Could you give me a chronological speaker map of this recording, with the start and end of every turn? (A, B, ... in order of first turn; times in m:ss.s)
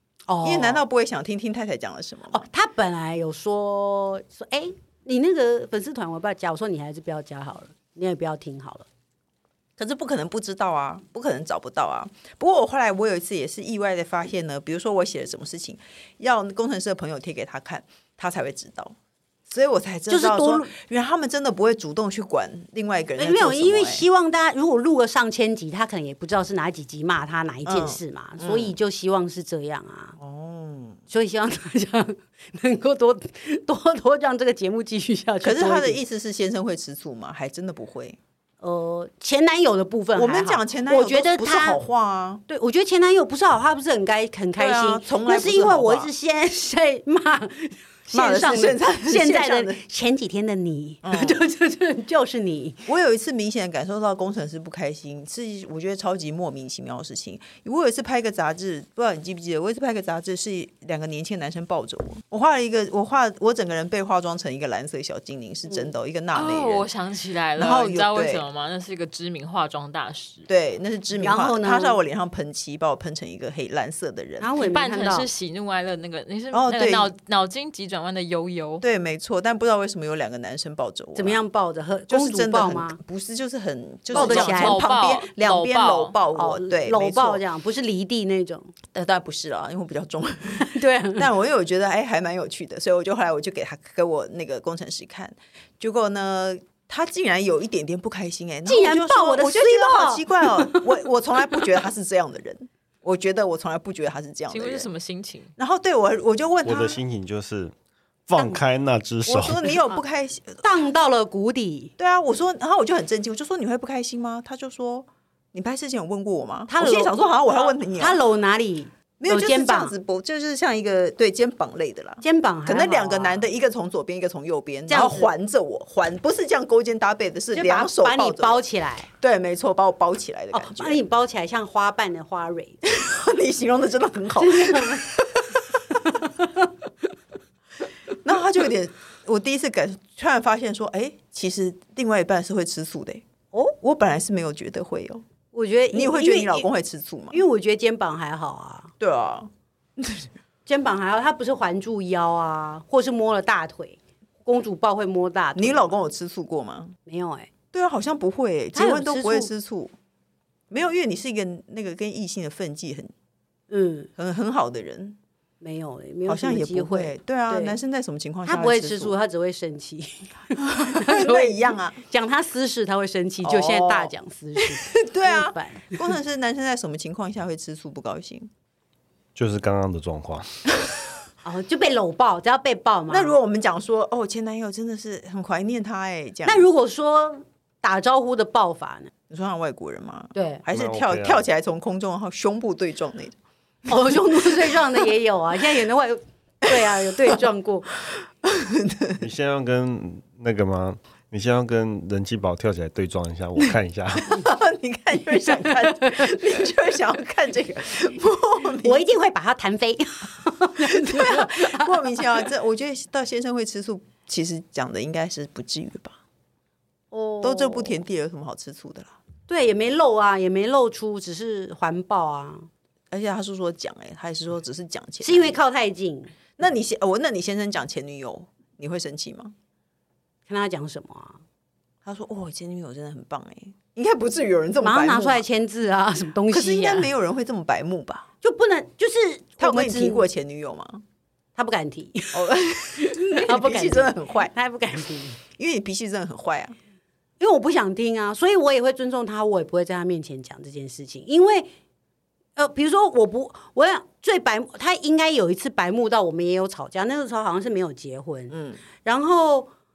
0:00.3-0:00.8 A
0:00.4-0:02.4 B
0:02.3-0:08.9 A
0:09.8-0:19.0 B
0:19.5-0:24.0 B
0:20.1-0:20.7 A
0:23.2-0:30.2 A
0:27.6-0:28.7 B
0:30.2-0:31.0 B
0:31.1-0:36.0 A
0:35.4-0:38.2 B
0:38.6-0:41.8 A
0:40.1-0:42.4 B
0:42.5-0:52.9 A
0:44.6-0:46.1 B
0:48.1-0:49.8 B
0:51.0-0:51.4 B
0:52.9-1:06.9 B
1:06.3-1:10.4 C
1:07.6-1:08.4 B
1:10.5-1:14.5 B
1:11.2-1:12.0 A
1:14.4-1:15.3 A
1:14.6-1:18.8 C
1:16.5-1:17.1 B
1:18.8-1:21.4 B
1:21.1-1:23.0 A
1:22.1-1:27.4 B
1:24.1-1:24.8 A
1:24.1-1:26.1 C
1:26.3-1:28.7 A
1:28.9-1:44.9 B
1:30.6-1:31.3 A
1:38.6-1:40.9 A
1:44.5-1:45.5 C
1:45.6-1:47.0 B
1:46.6-1:47.7 D
1:48.3-1:49.7 D
1:49.2-1:50.6 B
1:50.6-1:51.9 A
1:52.0-1:58.2 B
1:56.7-1:57.2 A
1:58.0-1:59.9 A
1:59.2-2:08.6 B
2:02.2-2:03.4 A
2:04.9-2:05.3 A
2:07.5-2:09.1 A
2:09.2-2:11.0 B
2:10.5-2:12.8 A
2:12.8-2:15.6 B
2:14.4-2:15.2 A
2:15.9-2:16.7 A
2:18.2-2:23.2 B
2:23.8-2:25.2 B
2:25.5-2:26.7 A
2:25.9-2:27.4 B
2:27.3-2:28.9 A
2:29.0-2:30.3 B
2:30.6-2:35.9 A
2:35.5-2:37.0 B
2:37.0-2:37.5 A
2:37.7-2:39.9 B
2:38.7-2:39.5 A
2:40.7-2:43.1 B
2:43.7-2:44.1 A
2:44.2-2:45.2 B
2:45.6-2:47.8 A
2:46.2-2:49.1 B
2:48.4-2:56.0 A
2:50.6-2:52.0 B
2:53.4-2:58.5 B
2:59.4-3:00.7 D
3:01.4-3:03.3 A
3:03.1-3:06.6 B
3:06.4-3:09.1 A
3:09.3-3:13.4 B
3:10.3-3:10.6 A
3:10.7-3:11.4 D
3:13.9-3:17.9 A
3:16.7-3:17.4 B
3:18.1-3:19.2 B
3:19.2-3:24.4 D
3:24.2-3:29.0 B
3:25.6-3:26.3 A
3:28.8-3:31.9 A
3:30.8-3:36.2 B
3:37.1-3:38.0 A
3:37.4-3:39.2 B
3:39.5-3:42.7 A
3:43.1-3:45.6 B
3:45.2-3:46.3 A
3:46.6-3:49.5 B
3:50.5-3:51.4 A
3:52.0-3:55.4 B
3:54.8-3:57.1 A
3:56.5-3:58.3 B
3:58.4-4:00.2 A
3:59.6-4:01.0 B
4:01.6-4:05.4 A
4:02.3-4:04.5 B
4:05.6-4:06.8 B
4:07.4-4:11.7 A
4:12.6-4:19.7 A
4:18.5-4:18.8 B